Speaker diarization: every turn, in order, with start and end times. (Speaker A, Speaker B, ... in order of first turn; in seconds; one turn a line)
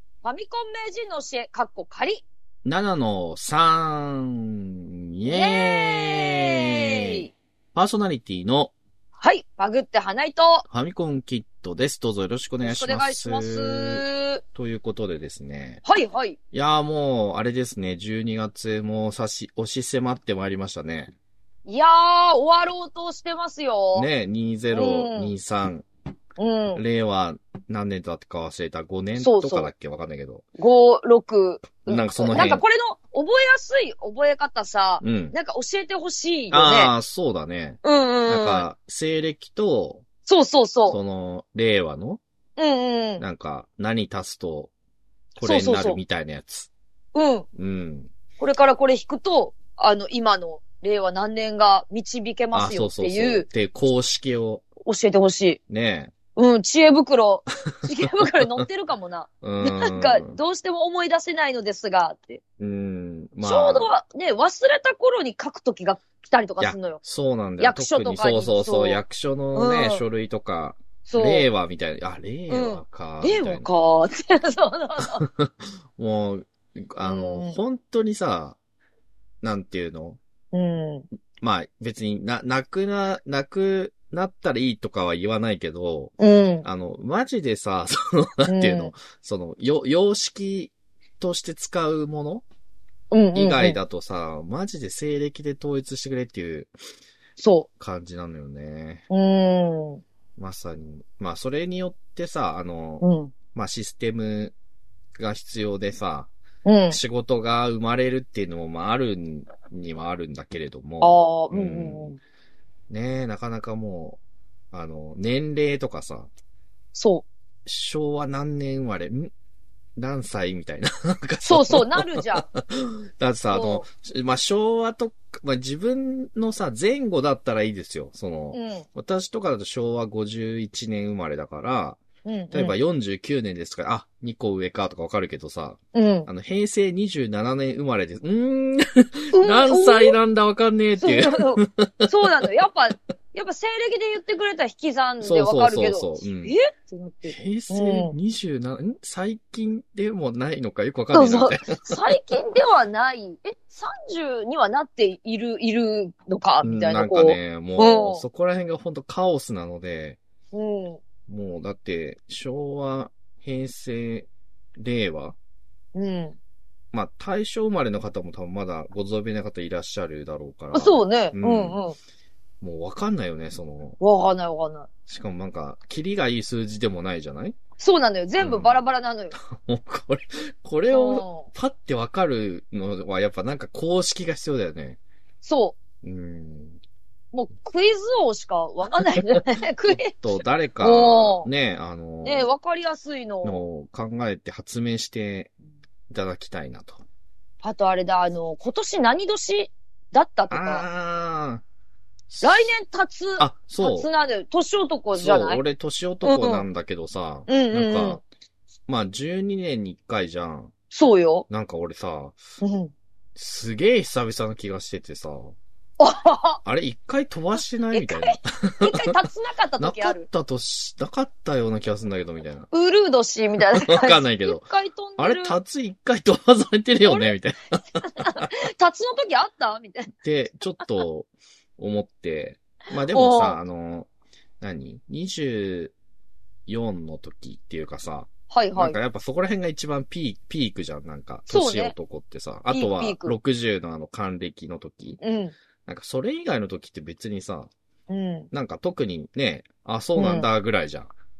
Speaker A: 0.2-2.2
Speaker B: 2.6-7.2
Speaker A: 5.2-7.3
Speaker B: 7.8-8.7
Speaker A: 9.2-10.6
Speaker B: 10.7-14.0
Speaker A: 12.6-14.4
Speaker B: 14.6-15.8
Speaker A: 15.8-16.4
Speaker B: 16.5-21.1
Speaker A: 21.7-24.1
Speaker B: 23.9-25.9
Speaker A: 24.7-25.3
Speaker A: 26.4-26.8
Speaker B: 26.7-30.4
Speaker A: 29.2-29.7
Speaker A: 30.6-37.0
Speaker B: 31.8-32.6
Speaker B: 35.0-35.4
Speaker B: 36.5-40.0
Speaker A: 37.8-38.7
Speaker A: 40.3-41.0
Speaker B: 40.9-42.2
Speaker A: 42.6-43.2
Speaker B: 43.2-44.7
Speaker B: 45.4-46.7
Speaker A: 45.4-46.0
Speaker A: 47.1-47.5
Speaker B: 47.6-48.1
Speaker A: 48.4-53.5
Speaker B: 52.5-54.6
Speaker A: 54.9-55.6
Speaker B: 55.7-56.1
Speaker A: 56.4-62.4
Speaker B: 57.8-58.6
Speaker B: 59.4-60.3
Speaker B: 62.6-63.9
Speaker A: 63.4-67.0
Speaker B: 66.6-73.7
Speaker A: 67.6-69.0
Speaker A: 69.5-70.0
Speaker A: 71.0-71.5
Speaker A: 72.5-75.3
Speaker B: 75.0-78.6
Speaker A: 77.0-77.6
Speaker B: 79.4-80.2
Speaker A: 80.5-81.1
Speaker B: 81.4-92.4
Speaker A: 86.2-86.7
Speaker A: 88.5-88.9
Speaker A: 93.1-93.8
Speaker B: 93.3-96.7
Speaker A: 97.4-97.7
Speaker B: 97.8-99.0
Speaker A: 99.1-100.0
Speaker B: 100.4-104.5
Speaker A: 103.0-103.3
Speaker B: 105.2-106.3
Speaker A: 106.7-107.0
Speaker B: 106.9-112.2
Speaker A: 111.0-112.2
Speaker B: 112.9-114.2
Speaker B: 114.7-116.3
Speaker A: 116.9-117.3
Speaker B: 117.7-119.3
Speaker B: 120.0-132.0
Speaker A: 121.4-122.5
Speaker A: 123.5-123.9
Speaker A: 128.5-128.9
Speaker A: 132.2-132.8
Speaker B: 132.5-142.1
Speaker A: 135.9-136.3
Speaker A: 139.3-140.2
Speaker A: 141.0-148.1
Speaker B: 145.2-146.5
Speaker B: 147.2-152.0
Speaker A: 151.1-158.2
Speaker B: 156.6-160.2
Speaker A: 160.5-161.0
Speaker B: 161.3-165.4
Speaker A: 165.9-166.4
Speaker B: 166.9-171.8
Speaker A: 170.7-172.0
Speaker B: 172.6-174.0
Speaker A: 174.0-174.9
Speaker B: 175.1-177.6
Speaker A: 177.8-179.3
Speaker B: 178.4-178.8
Speaker B: 179.4-185.0
Speaker A: 180.9-181.5
Speaker A: 185.4-185.8
Speaker B: 186.0-186.8
Speaker A: 187.3-190.2
Speaker B: 189.2-192.5
Speaker A: 190.8-191.5
Speaker A: 192.2-193.7
Speaker B: 193.4-195.5
Speaker B: 196.1-197.0
Speaker A: 197.6-200.8
Speaker B: 200.5-201.6
Speaker B: 202.3-202.7
Speaker A: 202.4-205.6
Speaker B: 203.4-204.1
Speaker B: 205.1-208.2
Speaker A: 206.2-206.7
Speaker A: 207.5-208.2
Speaker B: 208.9-210.7
Speaker A: 210.9-211.5
Speaker B: 211.5-212.4
Speaker A: 212.6-212.9
Speaker B: 213.4-215.6
Speaker A: 216.0-216.6
Speaker B: 216.7-219.2
Speaker A: 217.9-220.3
Speaker B: 219.8-222.7
Speaker A: 222.7-225.6
Speaker B: 223.7-224.7
Speaker B: 225.2-228.5
Speaker A: 228.0-230.1
Speaker B: 230.1-234.1
Speaker A: 233.1-233.6
Speaker B: 234.6-235.9
Speaker B: 236.7-245.2
Speaker A: 238.5-239.0
Speaker A: 241.5-241.9
Speaker A: 242.7-243.4
Speaker A: 245.2-245.6
Speaker B: 245.9-247.7
Speaker A: 248.1-248.5
Speaker B: 248.5-251.1
Speaker A: 250.2-250.5